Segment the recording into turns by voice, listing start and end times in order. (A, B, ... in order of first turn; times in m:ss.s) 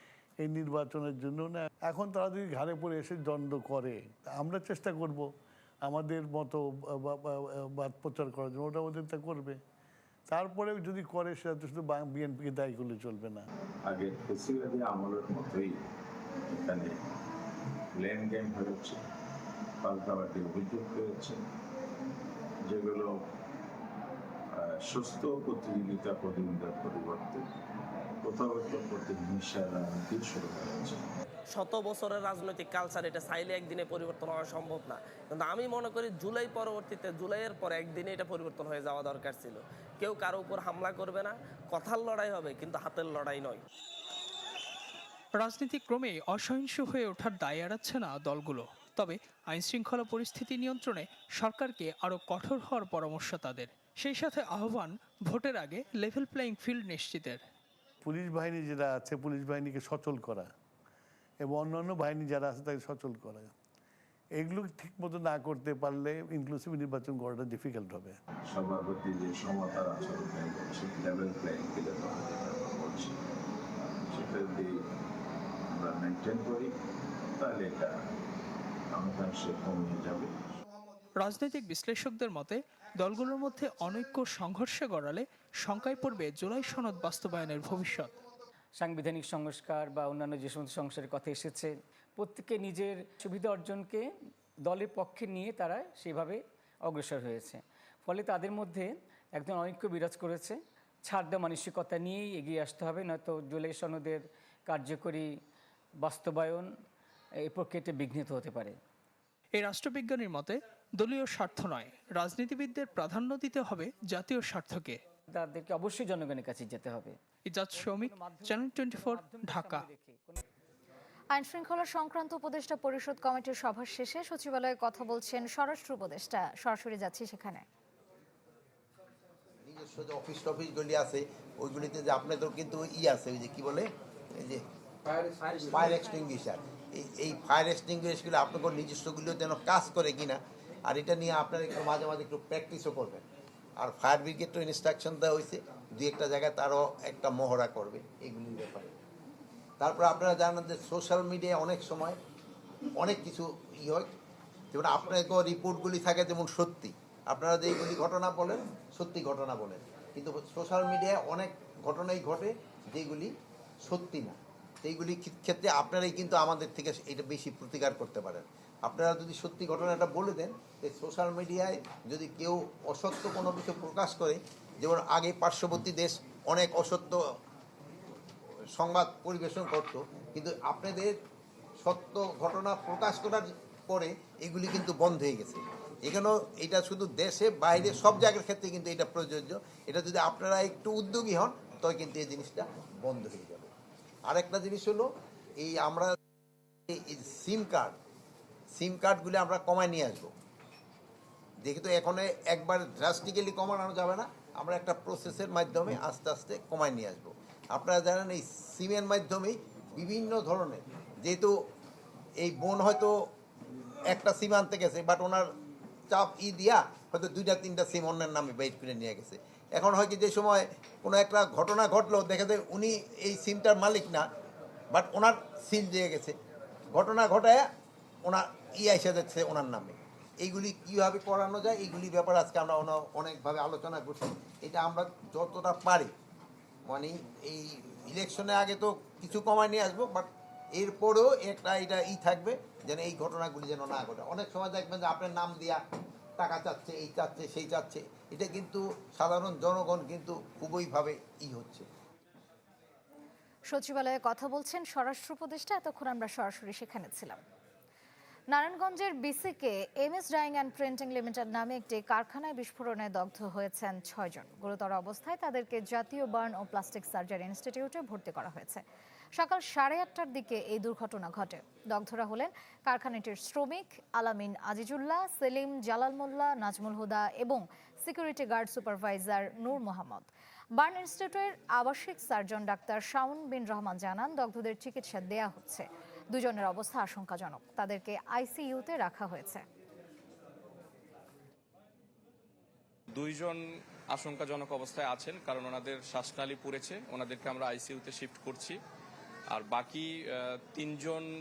0:00.4-0:05.3 A
0:05.8-0:09.6 A
0:10.3-0:13.5 A
0:13.8-0:15.8 B
0:16.5-0:17.0 B
0:17.9-0:19.0 B
0:19.8-0:21.4 B
0:22.7-0:23.2 B
0:24.5-0:27.4 B
0:28.2-0:31.0 B
0:31.5-0:43.6 C
0:45.4-0:57.4 D
0:58.0-1:00.5 A
1:01.4-1:03.5 A
1:04.4-1:08.2 A
1:08.5-1:13.2 B
1:14.1-1:14.8 B
1:15.7-1:16.7 B
1:17.4-1:18.0 B
1:18.9-1:20.3 B
1:21.2-1:28.1 D
1:28.8-1:34.1 E
1:34.6-1:45.4 E
1:46.0-1:46.7 E
1:47.4-1:48.8 E
1:49.6-1:55.0 D
1:55.3-1:57.2 E
1:57.5-1:59.8 D
1:57.7-2:00.4 E
2:01.3-2:07.6 F
2:09.6-2:14.6 G
2:15.6-2:23.2 G
2:23.8-2:28.9 G
2:29.8-2:32.2 G
2:33.0-2:34.1 G
2:34.7-2:43.3 G
2:43.8-2:57.2 G
2:58.8-3:01.2 G
3:01.8-3:13.7 G
3:14.3-3:15.1 G
3:15.6-3:16.1 G
3:16.9-3:18.0 G
3:18.8-3:20.3 G
3:21.6-3:31.5 G
3:32.4-3:33.1 G
3:34.1-3:35.5 G
3:36.1-3:44.2 G
3:44.9-3:46.4 G
3:46.9-3:47.6 G
3:48.2-3:56.1 G
3:56.9-4:05.8 G
4:06.4-4:11.8 G
4:13.7-4:17.4 F
4:18.5-4:28.8 F
4:29.3-4:49.6 F
4:53.1-4:58.8 H
4:59.5-5:01.3 H